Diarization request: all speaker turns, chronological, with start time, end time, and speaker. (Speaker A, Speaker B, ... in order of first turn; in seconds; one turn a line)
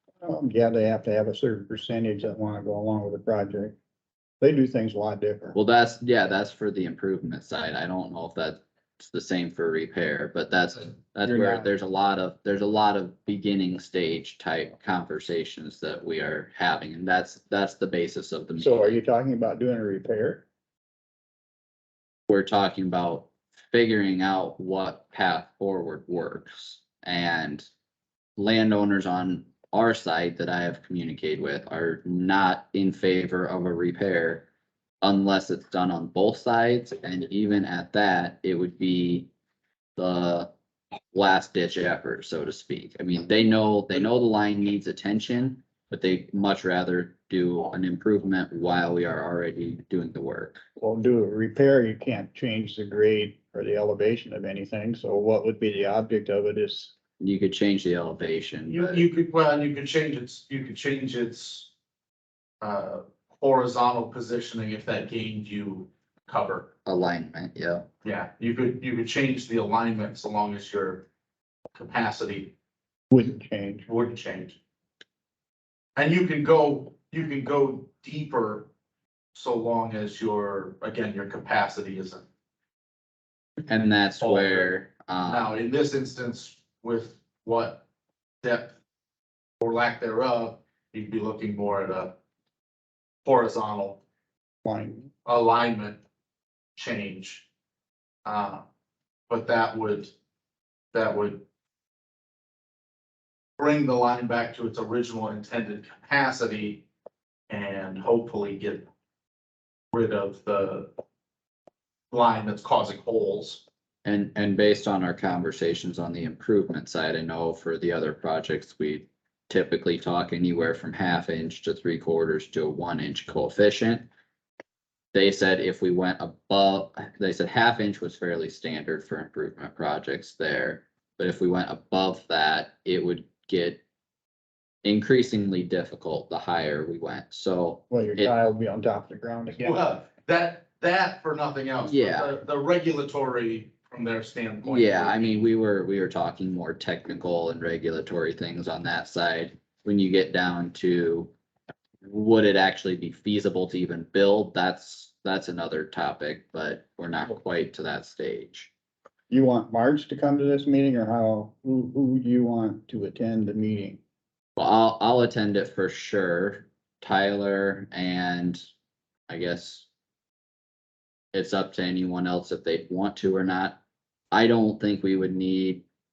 Speaker A: 0.2-3.8
Speaker A: 4.4-5.5
Speaker B: 5.5-19.0
Speaker A: 11.3-11.7
Speaker A: 18.6-20.4
Speaker B: 22.3-27.7
Speaker B: 28.4-34.5
Speaker B: 35.0-39.3
Speaker B: 40.0-40.5
Speaker B: 41.1-50.6
Speaker A: 50.8-56.9
Speaker B: 57.2-59.1
Speaker C: 58.7-61.7
Speaker C: 62.6-66.7
Speaker B: 66.9-67.9
Speaker C: 68.0-71.1
Speaker C: 71.7-72.5
Speaker A: 73.1-73.9
Speaker C: 73.9-74.6
Speaker C: 76.0-78.7
Speaker C: 79.3-82.3
Speaker B: 83.7-85.5
Speaker C: 84.2-84.8
Speaker C: 85.3-87.8
Speaker C: 88.4-88.8
Speaker C: 89.6-92.2
Speaker C: 93.2-94.0
Speaker A: 94.7-95.1
Speaker C: 95.2-96.0
Speaker C: 96.8-97.5
Speaker C: 98.2-98.6
Speaker C: 99.3-100.1
Speaker C: 100.9-101.4
Speaker C: 103.6-106.8
Speaker C: 107.5-108.9
Speaker C: 109.9-110.9
Speaker C: 112.1-113.6
Speaker B: 114.0-124.1
Speaker B: 125.1-133.8
Speaker B: 134.8-138.4
Speaker A: 137.9-139.8
Speaker C: 139.6-145.4
Speaker B: 141.8-142.3
Speaker B: 144.6-151.3
Speaker B: 152.0-158.7
Speaker A: 159.3-164.0
Speaker B: 164.6-168.7
Speaker B: 169.3-169.9
Speaker B: 171.3-173.8
Speaker B: 174.3-175.8